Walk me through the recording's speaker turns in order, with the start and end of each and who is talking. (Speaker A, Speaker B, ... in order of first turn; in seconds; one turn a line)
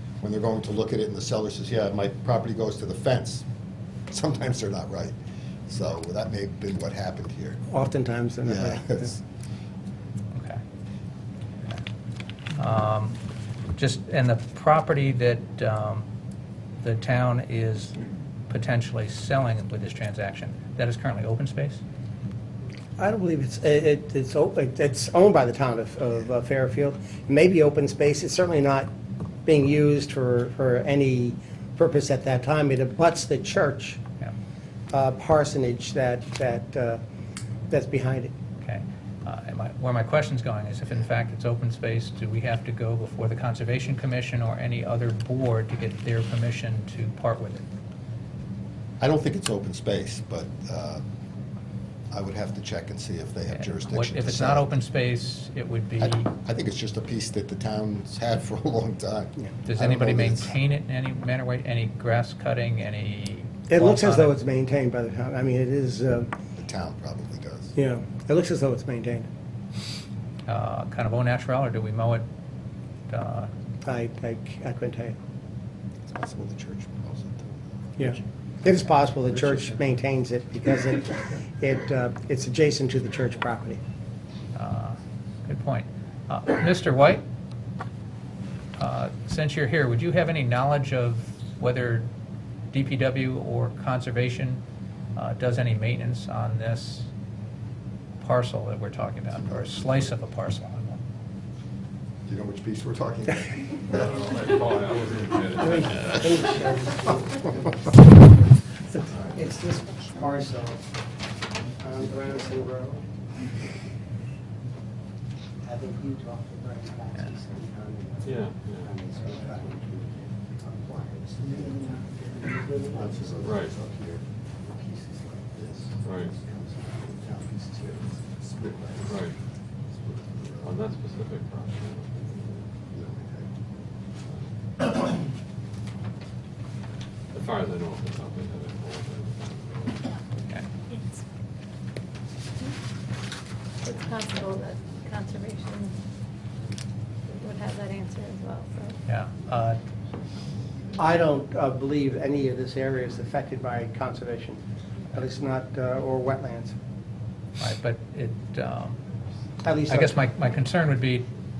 Speaker A: 0.2-3.5
Speaker A: 4.1-5.2
Speaker A: 5.7-7.6
Speaker B: 7.7-9.2
Speaker A: 8.5-9.2
Speaker C: 10.3-10.6
Speaker C: 12.6-13.2
Speaker C: 13.8-16.1
Speaker C: 16.8-18.0
Speaker C: 18.5-21.8
Speaker B: 23.0-28.9
Speaker B: 29.5-34.0
Speaker B: 34.9-37.0
Speaker B: 37.7-38.3
Speaker C: 38.6-47.7
Speaker A: 49.0-51.0
Speaker A: 52.1-54.8
Speaker C: 53.5-56.3
Speaker A: 56.0-60.5
Speaker C: 59.7-64.3
Speaker B: 63.7-66.3
Speaker A: 66.6-67.7
Speaker B: 67.8-69.3
Speaker C: 70.5-72.2
Speaker C: 73.1-73.5
Speaker B: 73.8-75.2
Speaker A: 76.1-77.6
Speaker B: 78.0-83.8
Speaker C: 84.5-87.2
Speaker C: 88.8-92.1
Speaker C: 92.7-94.6
Speaker C: 95.2-97.1
Speaker C: 98.2-101.0
Speaker A: 99.3-99.7
Speaker A: 102.3-104.3
Speaker D: 104.0-106.4
Speaker B: 105.6-107.9
Speaker B: 108.9-110.8
Speaker B: 111.8-113.0
Speaker B: 115.6-118.3
Speaker D: 118.2-119.0
Speaker B: 118.8-123.4
Speaker A: 122.9-124.2
Speaker D: 123.4-123.8
Speaker B: 125.2-125.6
Speaker D: 126.0-126.3
Speaker B: 126.4-127.9
Speaker A: 128.5-129.1
Speaker D: 129.0-129.4
Speaker A: 130.0-130.7
Speaker D: 130.6-132.7
Speaker A: 132.9-133.5
Speaker D: 137.3-140.1
Speaker E: 143.8-145.9
Speaker E: 147.3-149.0
Speaker C: 149.1-149.8
Speaker B: 150.9-156.8
Speaker C: 157.6-159.0
Speaker B: 159.6-160.2
Speaker C: 159.9-161.3